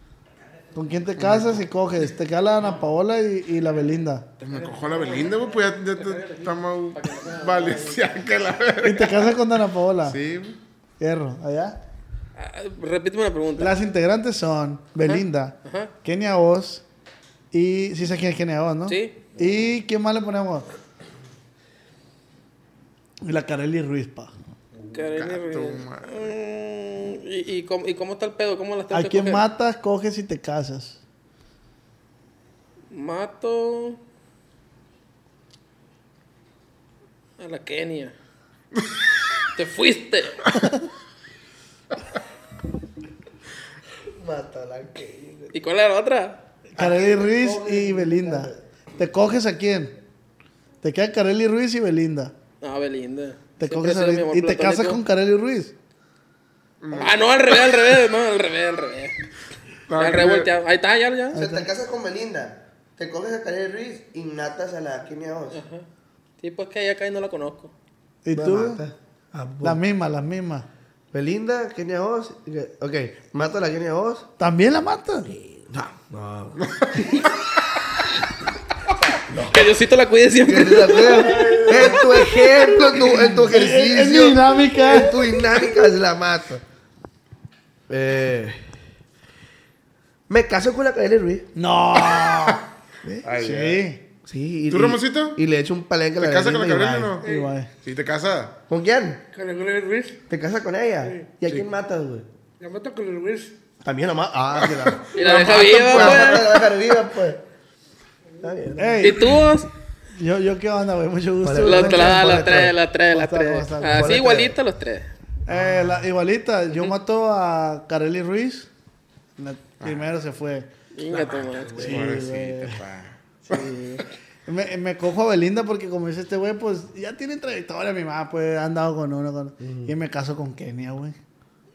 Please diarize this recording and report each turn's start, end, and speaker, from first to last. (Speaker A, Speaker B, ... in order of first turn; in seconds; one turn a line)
Speaker A: 0.7-4.3
Speaker B: 1.2-1.5
Speaker B: 4.4-9.4
Speaker C: 6.0-8.1
Speaker A: 8.8-10.2
Speaker B: 10.0-10.6
Speaker A: 11.0-11.8
Speaker C: 12.3-13.8
Speaker A: 13.6-16.8
Speaker C: 15.0-15.9
Speaker A: 17.5-20.7
Speaker C: 18.9-19.2
Speaker A: 23.2-24.3
Speaker C: 24.9-29.5
Speaker B: 25.0-26.3
Speaker A: 28.9-31.0
Speaker C: 32.9-34.0
Speaker C: 37.4-38.1
Speaker C: 39.6-40.5
Speaker D: 44.2-45.5
Speaker C: 45.5-46.4
Speaker A: 46.7-50.0
Speaker D: 46.8-48.6
Speaker A: 50.8-52.3
Speaker C: 52.6-55.0
Speaker A: 53.6-55.7
Speaker B: 56.8-57.2
Speaker C: 56.9-59.1
Speaker B: 59.9-60.5
Speaker C: 60.0-61.4
Speaker A: 61.3-61.7
Speaker D: 61.4-65.6
Speaker C: 65.5-65.9
Speaker C: 66.4-67.7
Speaker A: 68.2-68.8
Speaker D: 68.3-69.8
Speaker A: 69.6-70.7
Speaker D: 71.1-74.3
Speaker A: 74.4-75.3
Speaker D: 75.3-76.7
Speaker B: 76.8-77.3
Speaker D: 79.3-79.6
Speaker C: 79.5-81.7
Speaker D: 80.4-86.6
Speaker A: 83.3-85.2
Speaker D: 87.9-88.6
Speaker D: 90.3-91.5
Speaker A: 91.5-92.6
Speaker B: 92.1-92.5
Speaker D: 93.0-93.4
Speaker B: 93.2-93.8
Speaker A: 93.4-94.0
Speaker D: 94.3-97.2
Speaker B: 94.7-95.4
Speaker B: 96.2-97.3
Speaker E: 97.2-97.5
Speaker A: 97.2-97.7
Speaker B: 97.8-98.5
Speaker D: 98.7-99.2
Speaker E: 99.3-100.2
Speaker D: 100.3-102.3
Speaker E: 101.0-101.3
Speaker E: 102.6-103.5
Speaker D: 103.8-107.4
Speaker B: 104.7-106.7
Speaker C: 105.1-106.6
Speaker D: 108.4-109.2
Speaker A: 108.8-109.4
Speaker C: 109.0-109.7
Speaker A: 110.1-114.2
Speaker D: 111.4-112.7
Speaker C: 111.6-115.1
Speaker D: 113.9-114.6
Speaker A: 115.5-118.7
Speaker A: 119.4-120.7
Speaker B: 119.8-120.1
Speaker C: 120.9-121.9
Speaker D: 121.3-122.2
Speaker B: 121.3-123.6
Speaker A: 121.8-122.8
Speaker A: 123.5-131.2
Speaker D: 129.6-129.9